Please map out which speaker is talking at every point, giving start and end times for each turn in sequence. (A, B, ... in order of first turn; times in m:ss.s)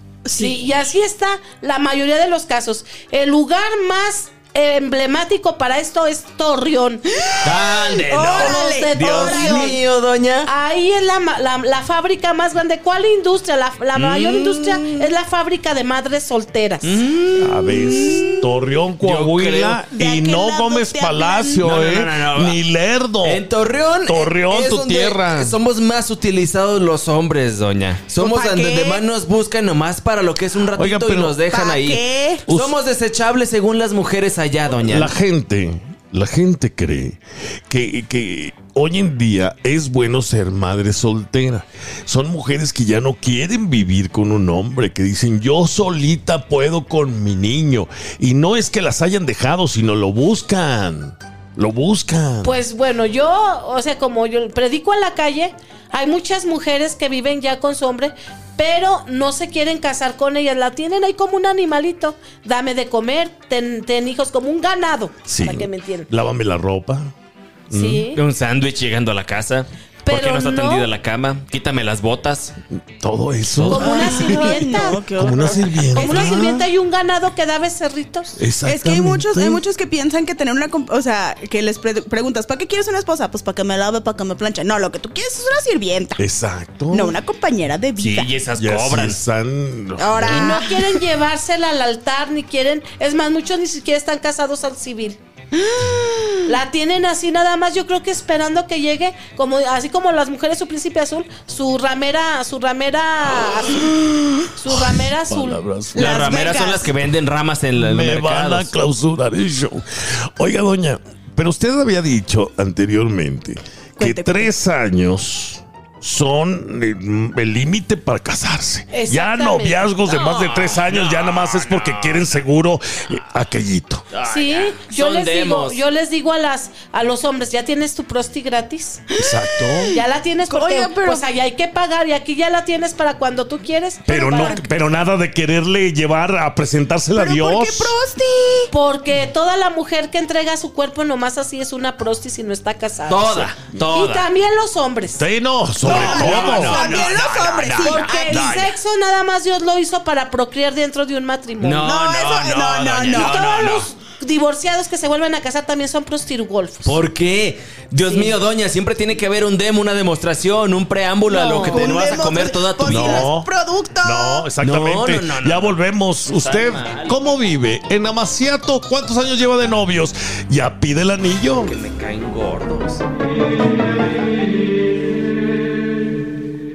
0:00.3-0:00.6 A
0:00.3-0:07.1 B
0:07.2-0:09.8 A
0:07.4-0:10.5 C
0:08.3-0:09.8 B
0:10.5-0:17.0 B
0:14.0-0:15.2 C
0:16.8-0:18.4 C
0:17.4-0:23.4 D
0:17.7-0:18.4 A
0:19.0-0:19.8 C
0:19.9-0:21.7 A
0:21.6-0:22.6 C
0:23.2-0:35.1 C
0:24.0-0:25.6 D
0:28.2-0:29.0 A
0:30.7-0:31.4 D
0:31.5-0:32.4 A
0:32.5-0:32.8 D
0:34.8-0:52.6 D
0:52.4-1:06.1 B
1:05.3-1:07.1 D
1:07.7-1:08.1 D
1:07.7-1:08.2 B
1:08.1-1:12.5 C
1:10.0-1:10.9 B
1:13.0-1:16.6 D
1:13.7-1:15.0 B
1:13.7-1:16.6 A
1:16.0-1:18.4 B
1:18.4-1:19.6 D
1:18.6-1:26.2 A
1:26.2-1:27.2 D
1:26.9-1:28.3 A
1:28.0-1:29.2 C
1:28.6-1:30.6 D
1:30.0-1:31.1 A
1:30.2-1:35.2 B
1:35.6-1:36.5 A
1:36.5-1:44.0 B
1:44.6-1:45.6 B
1:44.6-1:46.5 D
1:46.0-1:46.9 A
1:46.0-1:48.8 C
1:47.8-2:04.1 D
1:54.0-1:54.5 A
1:58.9-1:59.9 B
2:00.1-2:02.4 C
2:04.1-2:05.8 C
2:04.2-2:09.0 B
2:09.2-2:10.0 D
2:09.2-2:11.3 A
2:09.9-2:14.7 B
2:14.1-2:18.0 D
2:14.3-2:14.6 A
2:17.2-2:18.7 A
2:18.7-2:25.3 B
2:23.1-2:24.3 C
2:25.2-2:27.1 D
2:25.8-2:28.6 A
2:25.8-2:28.8 C
2:27.8-2:31.9 B
2:31.6-2:33.9 C
2:31.8-2:33.4 A
2:33.1-2:37.0 B
2:36.8-2:43.3 C
2:38.0-2:38.3 B
2:41.3-2:42.0 B
2:41.6-2:44.5 A
2:42.9-2:43.5 D
2:44.0-2:51.7 D
2:44.6-2:47.2 C
2:51.6-2:53.0 C